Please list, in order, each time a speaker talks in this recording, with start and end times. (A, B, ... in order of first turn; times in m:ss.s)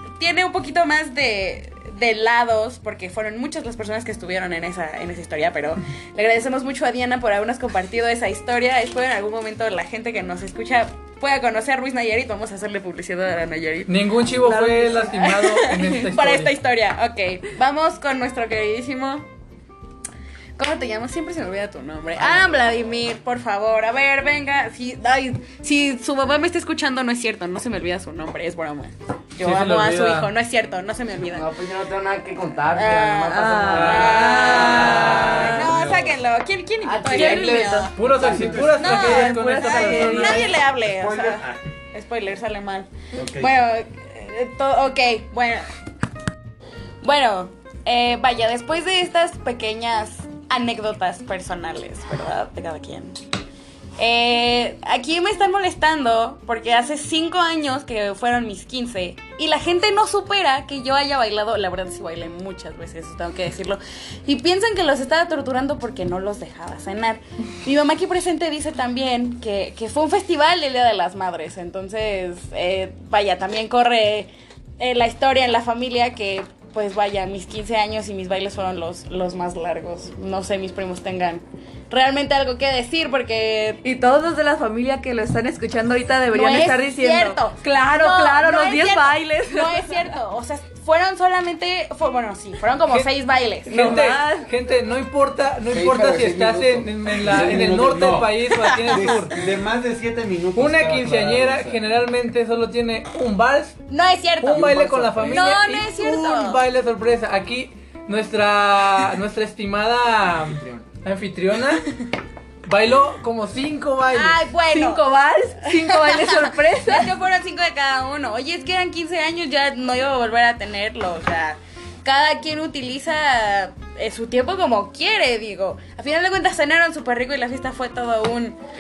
0:00.2-0:19.2 A
0:13.9-0:16.5 B
0:14.5-0:15.1 C
0:20.6-0:31.5 A
0:29.4-0:30.3 B
0:31.3-0:35.6 D
0:32.7-0:38.0 A
0:33.3-0:34.9 C
0:33.6-0:35.6 B
0:35.1-0:36.2 E
0:36.8-0:38.8 D
0:37.1-0:40.5 B
0:38.2-0:38.8 E
0:38.8-0:45.7 A
0:39.0-0:40.5 C
0:40.8-0:41.6 E
0:43.1-0:43.6 E
0:47.0-0:53.2 A
0:54.0-1:23.8 A
1:23.8-1:30.1 C
1:26.3-1:34.0 A
1:33.7-1:39.4 B
1:33.7-1:34.5 C
1:35.7-1:37.4 D
1:37.1-1:41.8 E
1:40.6-1:43.8 B
1:43.9-1:46.6 A
1:44.4-1:51.9 B
1:44.6-1:45.1 E
1:44.6-1:45.2 D
1:50.6-1:50.8 D
1:52.6-1:54.4 B
1:54.1-1:55.0 A
1:54.7-1:57.1 C
1:55.8-2:08.6 A